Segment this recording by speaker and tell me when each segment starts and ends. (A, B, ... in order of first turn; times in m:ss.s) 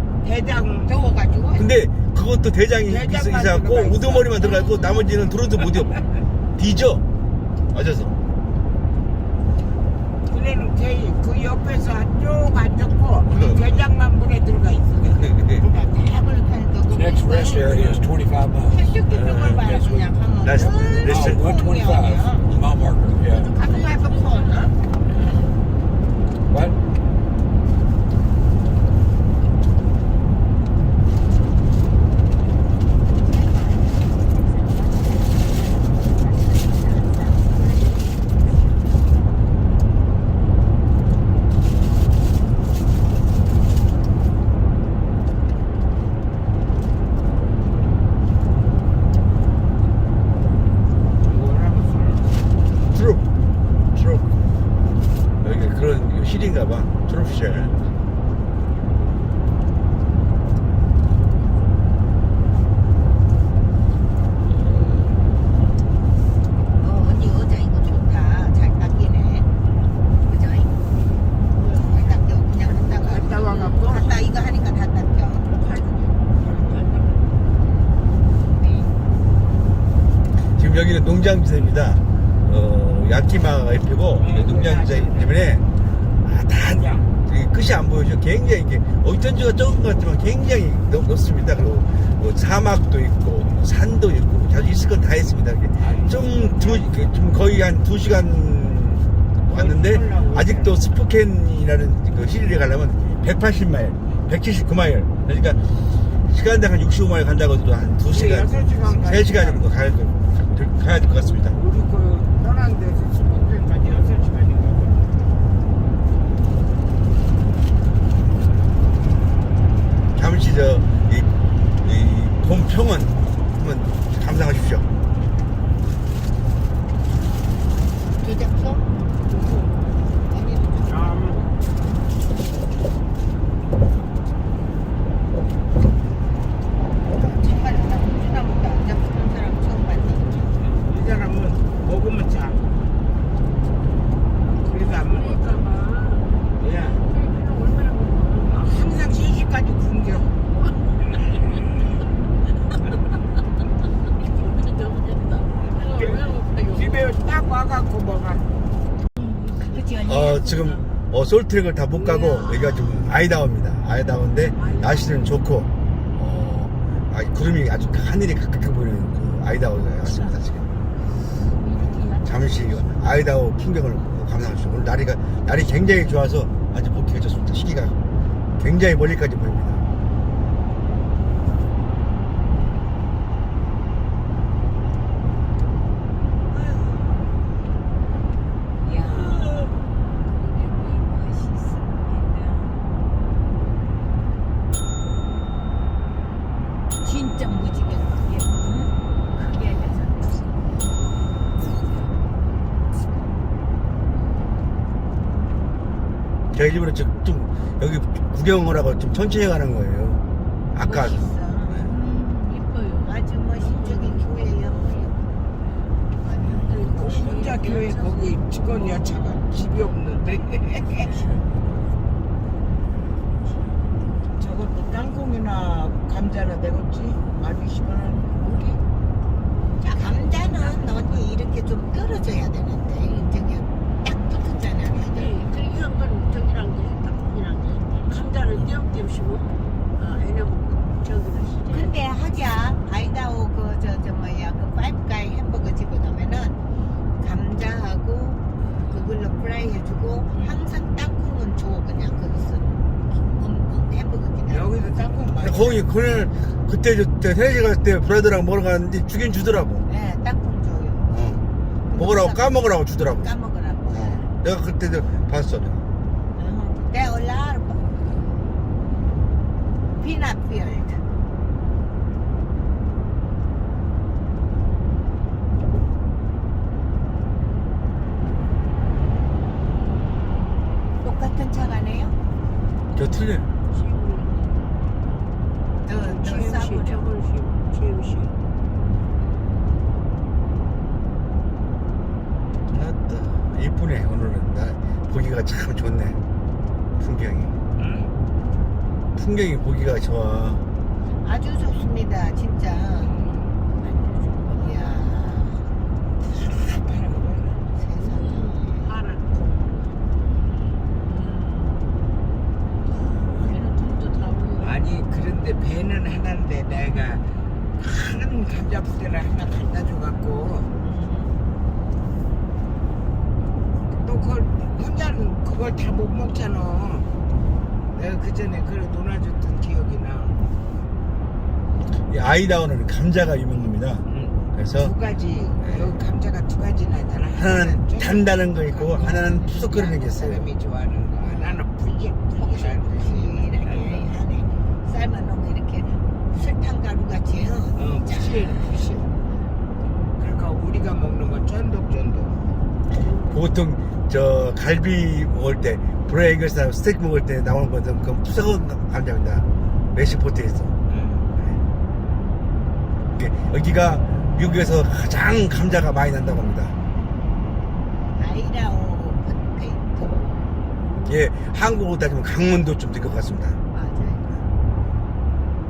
0:00.2-0:00.9 A
0:00.9-0:01.7 B
0:01.6-0:06.0 C
0:02.9-0:04.6 A
0:06.6-0:07.0 C
0:07.7-0:08.2 C
0:10.3-0:15.3 A
0:13.3-0:13.6 B
0:15.2-0:15.6 C
0:15.6-0:18.0 B
0:16.9-0:19.0 D
0:18.7-0:22.5 B
0:19.1-0:19.6 C
0:19.5-0:20.1 D
0:20.4-0:21.4 C
0:21.0-0:23.5 D
0:23.2-0:24.7 E
0:23.6-0:24.7 B
0:26.5-0:26.8 D
0:33.1-0:38.3 B
0:51.2-0:52.5 A
0:52.9-0:53.2 C
0:53.9-0:54.3 C
0:55.4-0:57.8 C
1:06.8-1:09.5 B
1:10.2-1:10.9 B
1:11.5-1:12.2 E
1:11.7-1:15.5 B
1:13.0-1:14.1 A
1:13.4-1:14.0 E
1:15.5-1:17.5 E
1:18.5-1:18.9 B
1:20.6-1:25.6 C
1:24.2-1:25.4 A
1:26.2-1:45.7 C
1:26.6-1:27.1 A
1:35.8-1:36.9 A
1:39.5-1:40.8 A
1:46.3-1:51.6 C
1:48.1-1:49.7 A
1:51.4-1:55.1 A
2:00.2-2:01.3 C
2:01.8-2:04.9 C
2:08.2-2:08.8 B
2:09.1-2:10.1 E
2:10.3-2:11.3 B
2:10.9-2:11.5 A
2:16.8-2:20.6 B
2:20.6-2:22.6 A
2:24.4-2:25.6 A
2:24.7-2:26.5 E
2:26.6-2:27.1 A
2:27.0-2:28.8 E
2:28.5-2:30.4 A
2:30.4-2:31.6 E
2:34.1-2:37.1 E
2:35.6-2:38.5 A
2:39.2-2:40.9 B
2:40.0-2:50.6 C
2:42.0-2:43.0 E
2:44.5-2:45.4 E
2:51.2-2:53.0 E
2:52.2-2:58.0 C
2:58.6-2:59.8 C
3:08.8-3:12.8 B
3:17.0-3:20.5 B
3:21.6-3:22.0 B
3:26.5-3:30.2 C
3:30.7-3:31.2 C
3:30.8-3:31.9 B
3:31.7-3:34.7 E
3:33.0-3:35.2 B
3:36.2-3:36.7 B
3:36.4-3:39.9 E
3:36.8-3:41.1 A
3:41.0-3:41.4 B
3:41.1-3:41.8 E
3:43.4-3:43.9 E
3:44.4-3:48.8 A
3:49.8-3:55.4 B
3:49.9-3:51.3 E
3:55.0-4:02.0 E
4:01.7-4:06.6 B
4:07.2-4:14.7 B
4:08.6-4:08.9 E
4:10.3-4:10.6 E
4:14.5-4:15.9 A
4:15.4-4:19.8 C
4:19.9-4:24.3 B
4:21.1-4:21.4 C
4:22.0-4:23.3 C
4:23.9-4:25.8 C
4:26.4-4:28.4 B
4:30.0-4:31.0 B
4:41.0-4:42.2 B
4:42.9-4:43.5 C
4:43.7-4:44.6 E
4:45.8-4:47.1 B
4:45.9-4:48.4 E
4:52.7-4:56.2 C
4:57.0-4:57.5 C
4:57.8-4:58.1 A
4:59.2-5:00.6 C
5:01.2-5:03.1 B
5:03.1-5:03.4 E
5:03.7-5:05.7 B
5:06.2-5:07.6 A
5:07.8-5:08.9 B
5:08.0-5:10.2 E
5:11.0-5:12.0 E
5:13.0-5:14.9 E
5:14.6-5:17.2 A
5:17.8-5:20.7 A
5:20.8-5:21.4 E
5:24.0-5:27.1 A
5:27.9-5:30.4 A
5:32.1-5:34.9 C
5:34.1-5:44.1 A
5:37.4-5:40.4 C
5:41.3-5:41.5 B
5:42.4-5:48.6 B
5:47.8-5:49.1 A
5:50.2-5:52.4 A
5:52.9-5:53.4 E
5:53.3-6:00.7 C
6:00.9-6:01.3 A
6:03.1-6:06.8 C
6:08.1-6:10.4 B
6:10.8-6:11.0 E
6:11.0-6:13.6 C
6:13.7-6:14.4 B